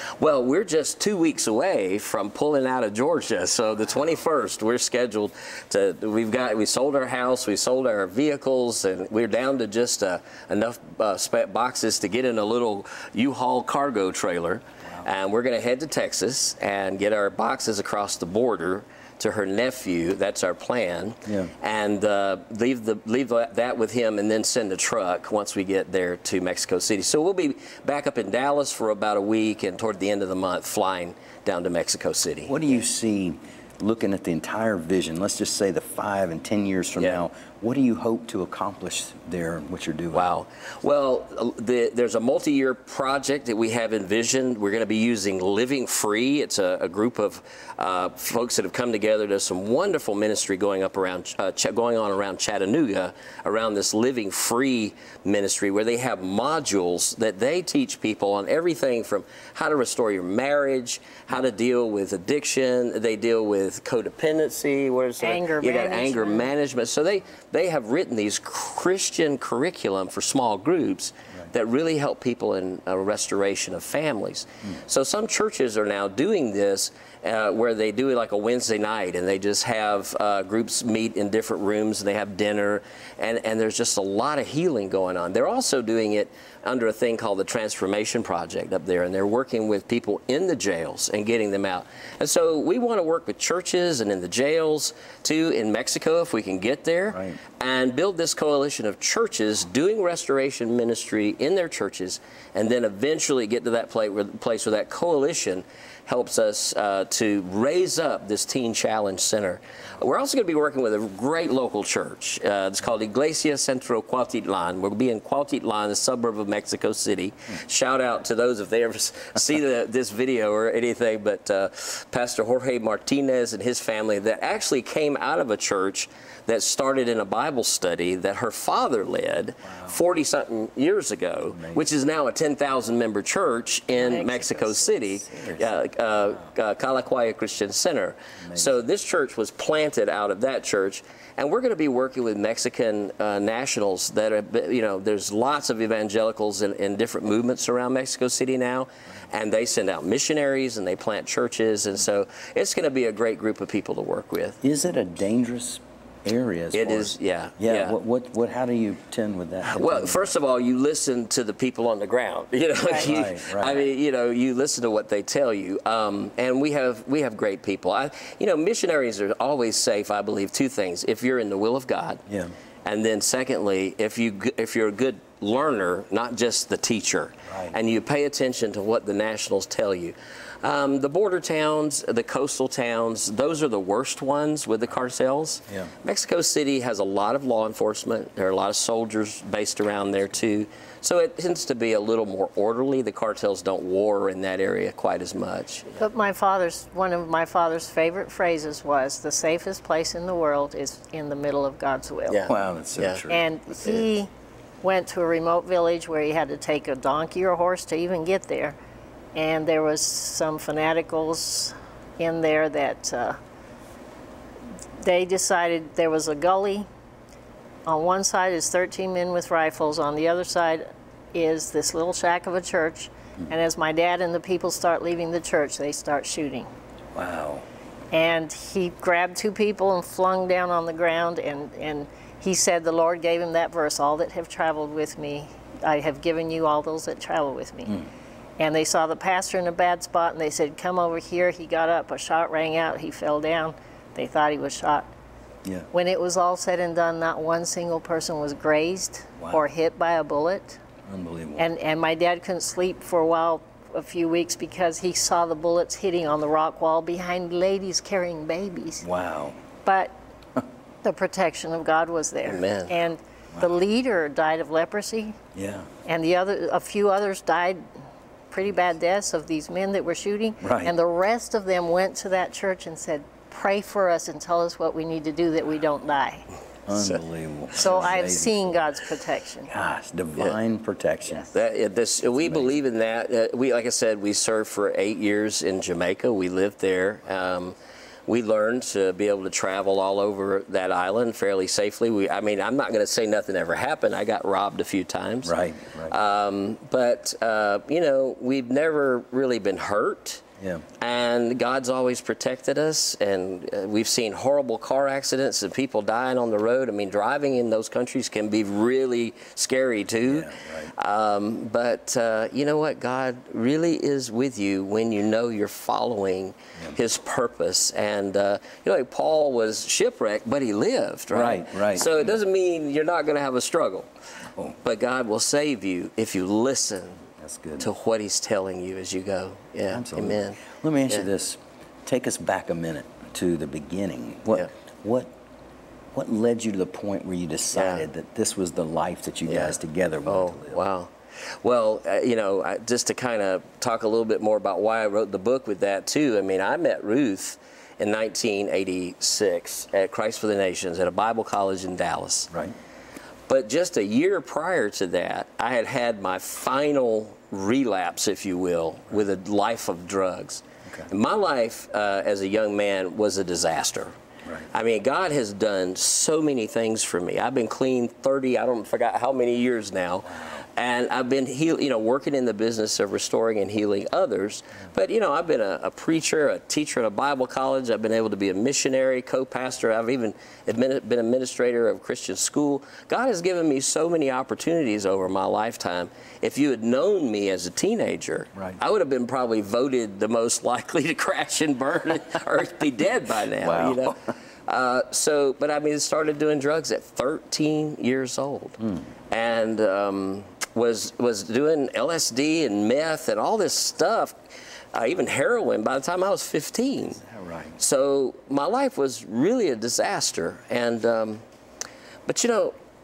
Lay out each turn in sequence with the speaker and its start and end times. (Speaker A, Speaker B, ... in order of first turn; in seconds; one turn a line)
Speaker A: 0.2-32.8
Speaker B: 21.2-21.5
Speaker B: 32.5-40.3
Speaker A: 37.0-37.2
Speaker A: 40.1-154.6
Speaker C: 65.2-66.5
Speaker B: 97.1-97.4
Speaker B: 129.6-130.0
Speaker B: 131.5-131.8
Speaker C: 134.3-134.8
Speaker B: 135.2-135.7
Speaker B: 138.4-138.8
Speaker B: 154.6-160.3
Speaker A: 156.7-157.9
Speaker A: 159.6-172.2
Speaker B: 163.0-163.9
Speaker B: 172.3-172.5
Speaker A: 172.8-196.0
Speaker B: 177.4-177.8
Speaker C: 196.0-202.4
Speaker A: 202.3-203.2
Speaker B: 202.5-203.8
Speaker C: 203.3-204.3
Speaker C: 204.8-208.8
Speaker C: 209.3-213.4
Speaker C: 215.0-216.9
Speaker C: 217.8-226.7
Speaker B: 227.1-227.6
Speaker C: 228.1-237.9
Speaker C: 238.6-245.1
Speaker C: 245.9-250.8
Speaker B: 249.4-249.6
Speaker B: 251.1-251.7
Speaker C: 251.6-259.1
Speaker B: 259.0-259.6
Speaker C: 259.8-260.1
Speaker C: 261.0-265.4
Speaker A: 262.4-263.0
Speaker B: 265.5-265.9
Speaker C: 266.1-267.8
Speaker C: 268.5-276.5
Speaker B: 270.6-270.9
Speaker B: 276.9-278.6
Speaker A: 276.9-277.2
Speaker C: 277.7-279.7
Speaker B: 279.7-281.5
Speaker A: 281.5-300.4
Speaker B: 282.4-282.7
Speaker B: 295.4-296.1
Speaker B: 300.6-300.8
Speaker A: 301.0-324.1
Speaker B: 310.2-310.9
Speaker B: 321.3-322.3
Speaker A: 324.8-327.2
Speaker B: 327.4-327.9
Speaker A: 327.8-331.3
Speaker B: 329.9-335.3
Speaker B: 336.1-340.8
Speaker A: 337.7-338.1
Speaker A: 339.4-352.5
Speaker A: 353.5-364.1
Speaker A: 364.7-398.8
Speaker B: 370.2-370.6
Speaker B: 388.5-388.8
Speaker B: 393.6-394.2
Speaker B: 398.8-399.1
Speaker A: 399.3-404.4
Speaker A: 404.9-407.2
Speaker B: 407.1-407.8
Speaker A: 407.8-411.4
Speaker A: 412.2-412.8